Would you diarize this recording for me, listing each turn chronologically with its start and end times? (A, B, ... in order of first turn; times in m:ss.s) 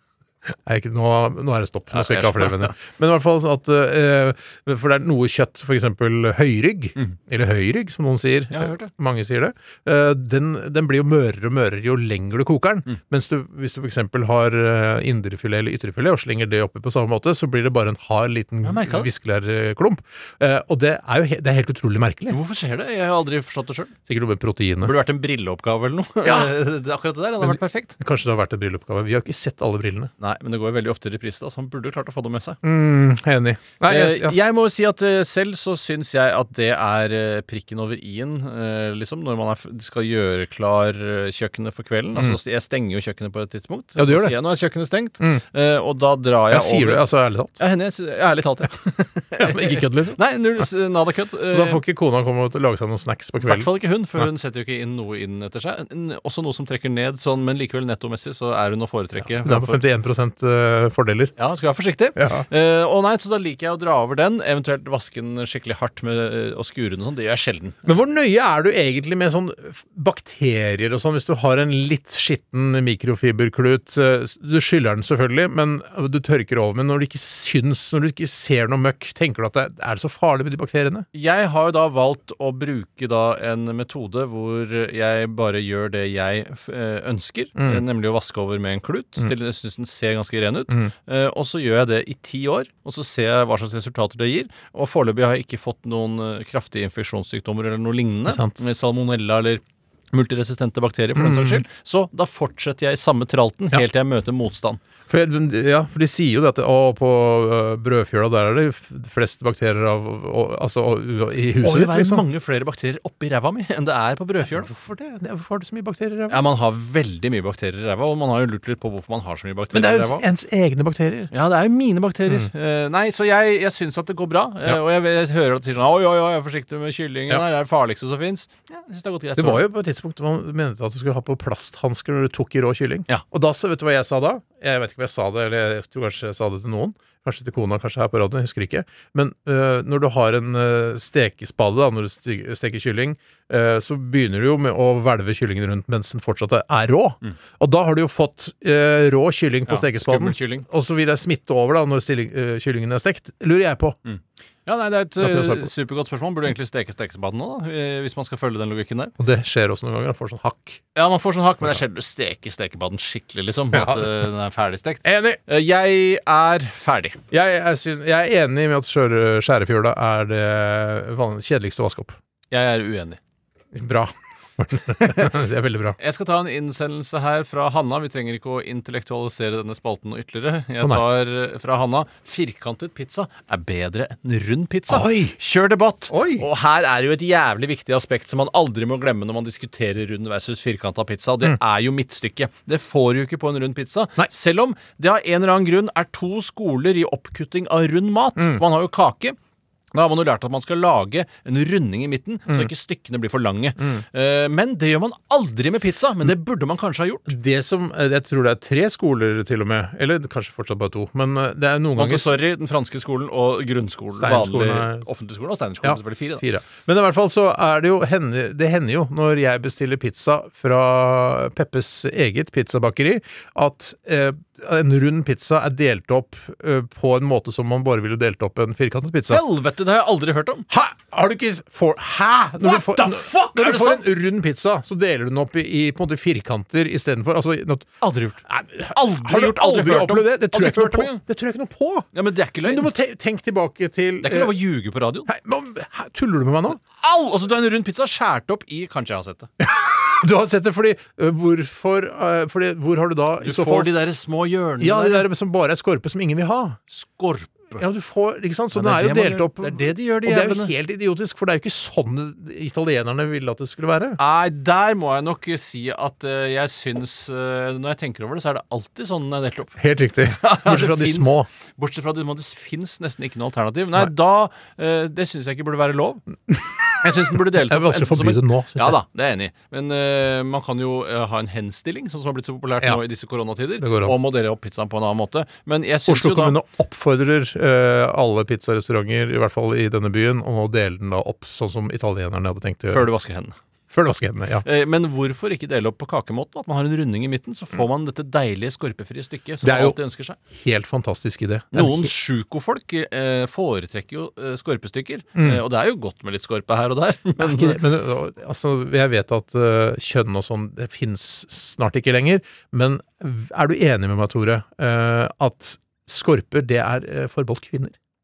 0:00.5-0:22.4 A
0:01.9-0:02.7 B
0:08.5-0:08.9 B
0:18.6-0:19.1 B
0:22.3-0:23.9 B
0:24.1-0:25.0 A
0:24.8-0:28.0 B
0:26.2-0:26.5 A
0:27.4-0:30.1 A
0:30.2-0:32.6 B
0:32.6-0:34.4 A
0:33.8-0:47.0 B
0:44.0-0:44.3 A
0:46.5-0:47.5 A
0:47.6-0:51.8 B
0:49.4-0:50.2 A
0:51.5-0:54.2 A
0:53.4-0:59.8 B
0:59.3-1:01.3 A
1:01.4-1:07.8 B
1:02.2-1:02.4 A
1:07.8-1:21.0 A
1:21.1-1:44.8 B
1:27.6-1:27.8 A
1:38.2-1:38.6 A
1:41.1-1:41.6 A
1:45.1-1:52.2 A
1:51.6-1:54.7 B
1:54.5-1:56.4 A
1:56.3-2:00.2 B
1:59.7-2:01.3 A
2:01.3-2:09.6 B
2:09.4-2:34.0 A
2:29.7-2:30.6 B
2:34.0-2:39.1 B
2:35.2-2:35.7 A
2:39.2-2:40.8 A
2:40.9-2:47.2 B
2:43.7-2:44.2 A
2:45.0-2:45.4 A
2:47.3-2:52.2 A
2:52.5-2:53.2 B
2:53.7-2:56.0 A
2:56.0-3:19.4 B
3:04.9-3:05.4 A
3:06.1-3:06.4 A
3:18.4-3:18.6 A
3:19.9-3:27.3 B
3:27.3-3:32.4 A
3:32.0-3:36.4 B
3:34.2-3:35.0 A
3:35.8-3:49.4 A
3:49.3-3:50.7 B
3:50.7-4:02.1 A
3:52.6-3:54.0 B
3:58.0-4:01.2 B
4:02.1-4:02.9 B
4:02.6-4:04.6 A
4:04.2-4:05.3 B
4:05.3-4:06.8 A
4:07.0-4:09.5 B
4:09.6-4:13.9 A
4:13.4-4:15.2 B
4:14.8-4:16.8 A
4:16.9-4:17.8 B
4:17.8-4:24.2 A
4:18.7-4:20.7 B
4:24.2-4:29.8 B
4:29.8-4:31.5 A
4:30.4-4:36.2 B
4:36.5-4:39.0 A
4:37.0-4:46.6 B
4:43.8-4:44.2 A
4:46.1-4:53.1 A
4:52.9-4:53.6 B
4:53.9-4:54.6 A
4:54.6-5:00.4 B
4:59.6-5:00.0 A
5:00.5-5:02.1 A
5:01.7-5:07.8 B
5:05.4-5:05.6 A
5:07.4-5:18.0 A